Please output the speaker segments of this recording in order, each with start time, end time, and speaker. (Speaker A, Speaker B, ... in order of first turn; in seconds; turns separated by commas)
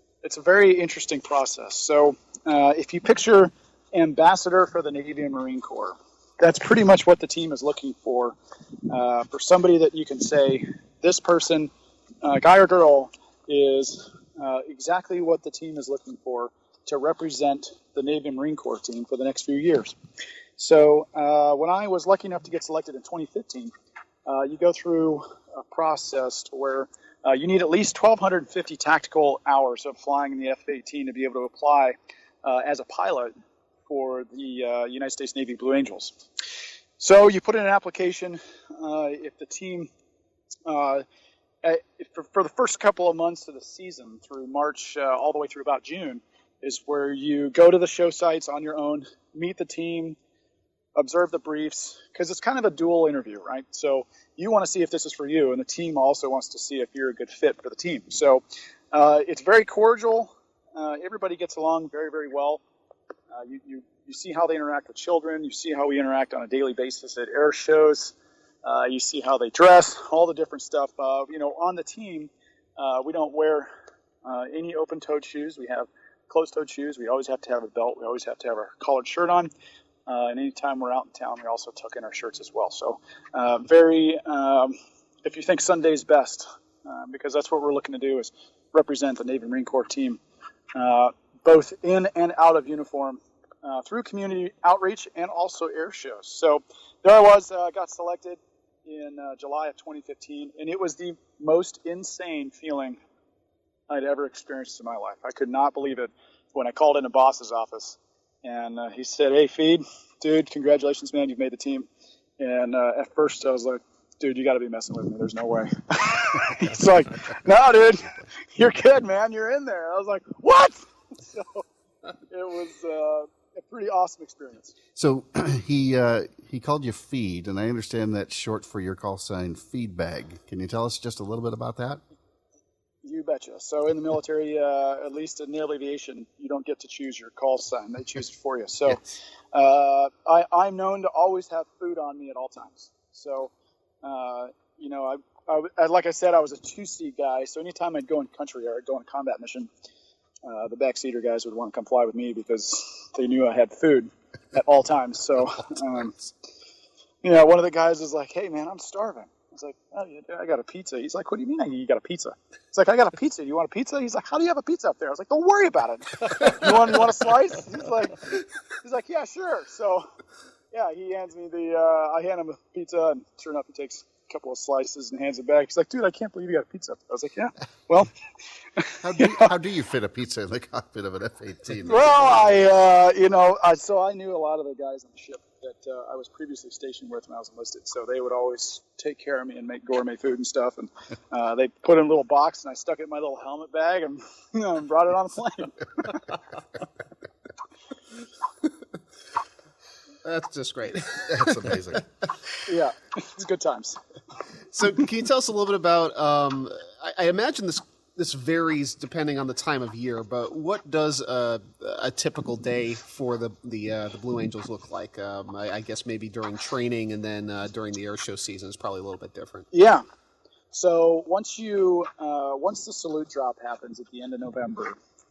Speaker A: 0.2-8.3, Speaker A: 8.9-11.7, Speaker A: 12.2-19.9, Speaker A: 20.6-23.7, Speaker A: 24.2-33.3, Speaker A: 33.9-36.1, Speaker A: 37.0-39.9, Speaker A: 40.6-41.0, Speaker A: 41.6-50.2, Speaker A: 51.0-62.6, Speaker A: 63.3-73.7, Speaker A: 74.2-79.5, Speaker A: 80.1-90.2, Speaker A: 90.7-103.0, Speaker A: 103.9-111.9, Speaker A: 112.4-121.6, Speaker A: 122.3-124.7, Speaker B: 124.9-132.0, Speaker A: 133.0-143.5, Speaker A: 144.0-149.7, Speaker A: 150.4-156.2, Speaker A: 157.2-170.1, Speaker A: 170.7-178.1, Speaker A: 178.8-179.4, Speaker B: 179.0-182.6, Speaker A: 181.8-196.2, Speaker C: 200.2-201.6, Speaker B: 201.3-202.0, Speaker A: 202.7-204.0, Speaker C: 204.7-219.7, Speaker A: 219.7-220.0, Speaker A: 220.7-225.0